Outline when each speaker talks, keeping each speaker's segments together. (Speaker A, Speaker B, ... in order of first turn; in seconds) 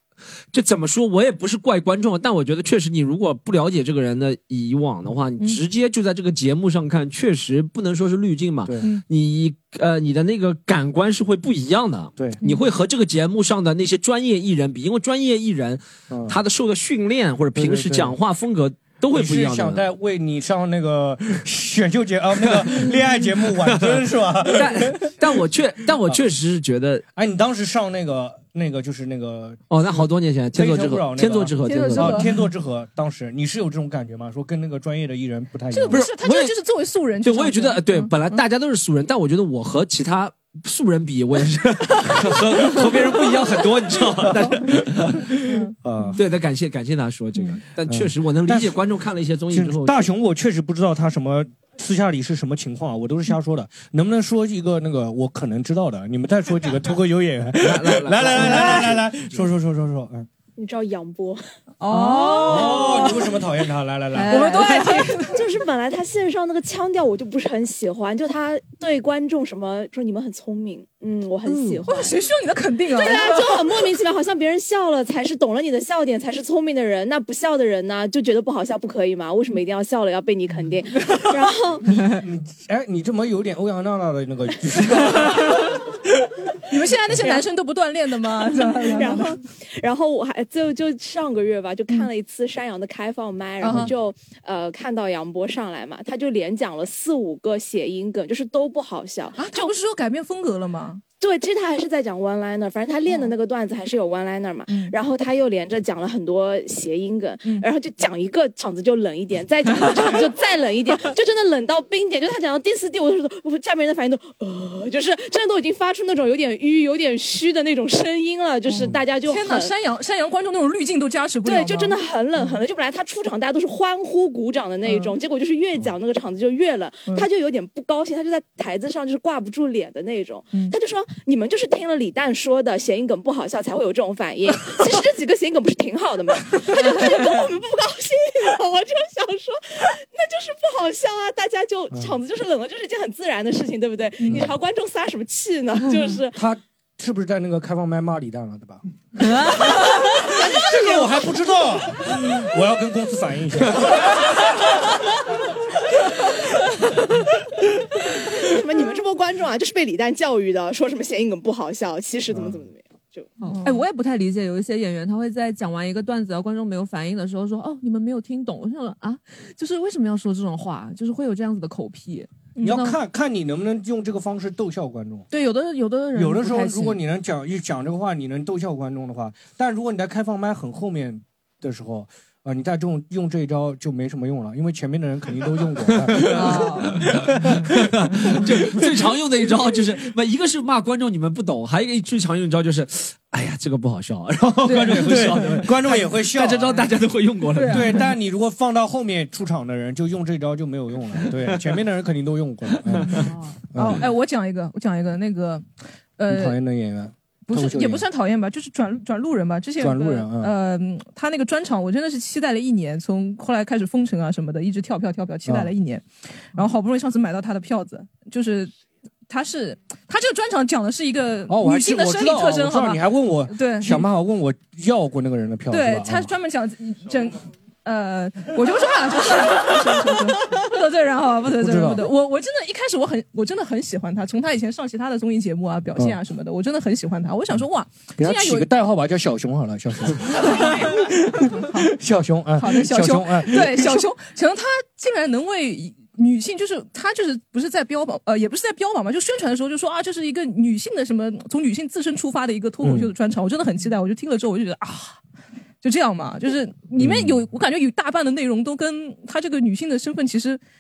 Speaker A: 0.5-19.8, 22.4-22.7, 23.6-27.0, 29.7-32.3, 35.9-36.5, 37.2-45.5, 46.1-50.1, 57.6-59.1, 186.0-186.4, 187.0-197.9, 201.2-201.7, 202.9-203.2
Speaker B: 16.1-16.4, 17.6-18.2, 19.1-25.4, 27.1-36.0, 44.4-44.8, 45.8-46.2, 47.9-48.8, 49.5-60.3, 62.3-64.5, 81.9-85.7, 146.3-148.8, 149.5-154.1, 162.3-162.6, 172.6-175.3, 176.1-189.0, 194.7-196.9, 197.7-204.0, 206.3-208.1, 209.8-210.5, 215.5-215.7, 221.5-226.3, 231.6-232.1, 238.2-244.1, 252.8-253.1, 257.0-257.4
Speaker C: 31.7-32.3, 35.7-38.4, 58.5-58.8, 61.8-63.3, 64.2-65.4, 71.8-73.6, 86.7-89.3, 93.6-93.9, 99.4-101.0, 104.7-105.0, 118.7-122.6, 124.8-125.2, 136.7-137.1, 144.2-144.5, 163.5-163.8, 172.6-172.9, 186.3-186.8, 194.7-195.3, 197.6-198.0, 203.8-205.7, 206.2-206.6, 207.5-218.7, 219.3-224.0, 225.7-238.7, 240.4-241.9, 242.6-255.2, 255.8-260.6
Speaker D: 60.6-61.4, 64.3-72.2, 72.9-81.9, 87.2-87.5, 88.5-99.7, 101.2-119.7, 121.4-146.4, 158.1-163.3
Speaker E: 61.9-62.9, 64.2-64.8, 71.5-71.8, 149.2-150.0, 163.4-173.0, 175.3-177.0, 186.4-186.8, 203.2-203.6